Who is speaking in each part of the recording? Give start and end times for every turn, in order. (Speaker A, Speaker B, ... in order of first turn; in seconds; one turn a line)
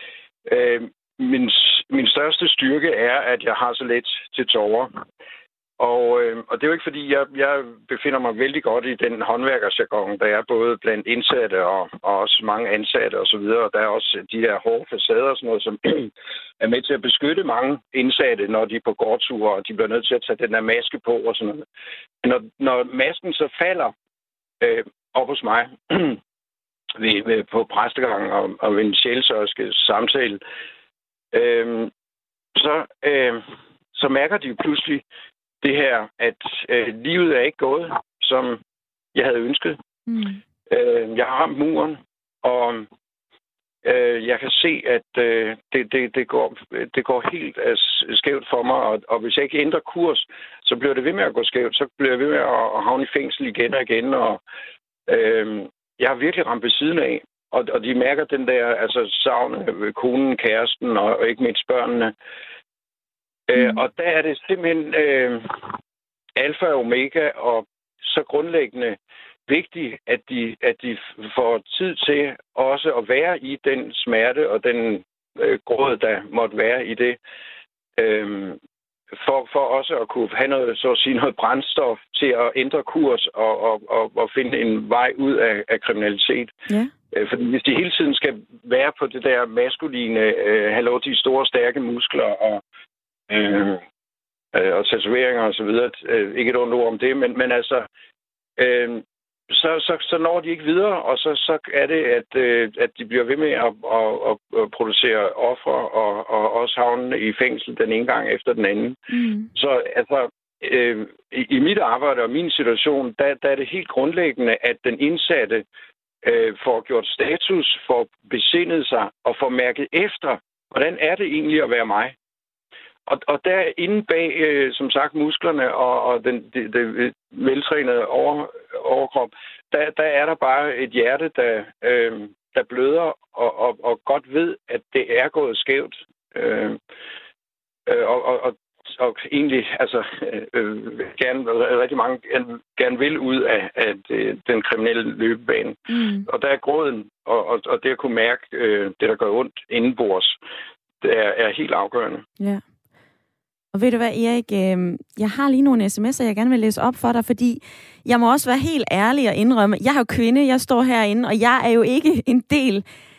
Speaker A: 0.5-4.9
Speaker A: 5.8-21.6
Speaker A: 22.2-23.9
Speaker A: 24.6-26.2
Speaker A: 27.0-30.4
Speaker A: 31.3-31.9
Speaker A: 32.5-33.4
Speaker A: 33.9-35.0
Speaker A: 35.6-38.6
Speaker A: 39.1-39.8
Speaker B: 40.1-40.4
Speaker A: 40.7-42.9
Speaker A: 43.8-54.4
Speaker A: 55.1-62.1
Speaker A: 63.5-65.7
Speaker B: 63.6-63.8
Speaker A: 66.4-77.2
Speaker A: 78.0-78.6
Speaker A: 79.2-86.5
Speaker A: 87.1-92.6
Speaker A: 93.3-93.8
Speaker A: 94.5-97.9
Speaker A: 98.6-109.0
Speaker B: 109.1-109.5
Speaker A: 109.5-115.6
Speaker A: 116.2-122.1
Speaker A: 123.1-136.8
Speaker A: 137.9-150.4
Speaker B: 145.9-146.2
Speaker A: 151.0-152.2
Speaker B: 153.7-162.8